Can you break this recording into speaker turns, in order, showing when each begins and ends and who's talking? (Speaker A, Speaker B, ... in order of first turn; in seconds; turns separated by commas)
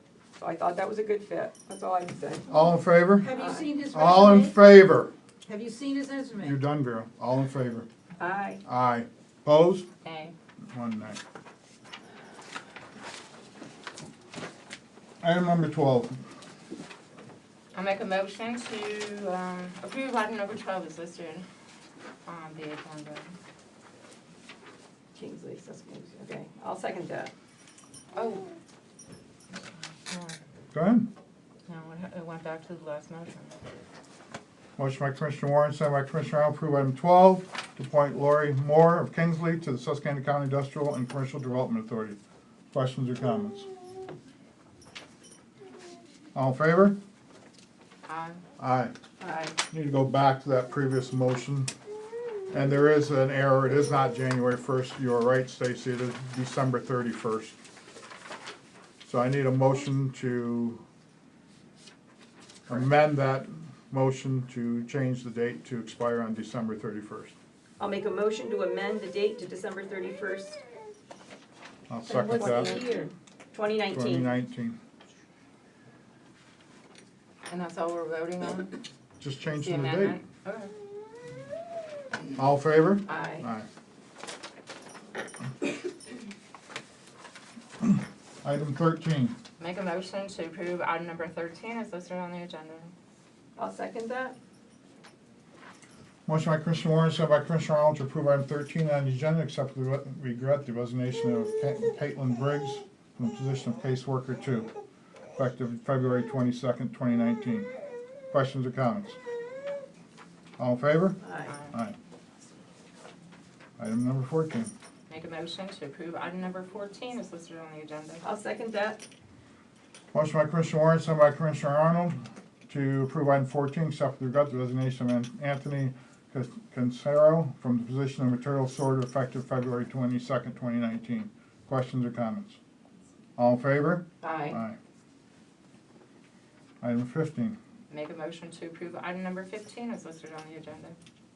Speaker A: 0.4-2.5, Speaker B: 2.5-5.1, Speaker C: 3.2-4.5, Speaker A: 3.3-3.7, Speaker C: 5.5-6.5, Speaker B: 6.4-7.9, Speaker A: 8.2-8.6, Speaker B: 8.6-9.8, Speaker D: 10.0-10.3, Speaker B: 10.7-11.2, Speaker B: 15.2-16.1, Speaker D: 17.7-21.4, Speaker D: 22.2-23.3, Speaker A: 25.1-27.3, Speaker D: 28.1-28.5, Speaker D: 30.1-30.4, Speaker B: 30.7-31.1, Speaker D: 31.7-33.5, Speaker B: 34.8-42.2, Speaker B: 42.7-43.7, Speaker B: 46.3-47.0, Speaker D: 48.1-48.4, Speaker B: 48.6-48.9, Speaker A: 49.2-49.6, Speaker B: 49.7-51.7, Speaker B: 52.5-57.5, Speaker B: 59.0-60.8, Speaker B: 62.7-67.3, Speaker A: 67.8-70.6, Speaker B: 71.9-72.8, Speaker C: 72.1-73.1, Speaker A: 72.2-74.3, Speaker B: 73.9-74.8, Speaker D: 77.5-78.8, Speaker B: 79.2-80.2, Speaker D: 79.5-80.7, Speaker B: 82.3-83.7, Speaker A: 83.1-83.5, Speaker B: 88.4-89.3, Speaker D: 89.6-92.9, Speaker A: 93.5-94.3, Speaker B: 96.2-104.7, Speaker B: 105.3-107.7, Speaker B: 108.3-109.2, Speaker B: 110.6-111.2, Speaker A: 111.2-111.5, Speaker D: 111.5-111.7, Speaker B: 113.8-114.7, Speaker D: 115.1-118.2, Speaker A: 118.2-119.0, Speaker B: 120.1-132.6, Speaker B: 133.4-134.8, Speaker A: 134.2-134.6, Speaker B: 136.8-137.6, Speaker D: 137.9-141.0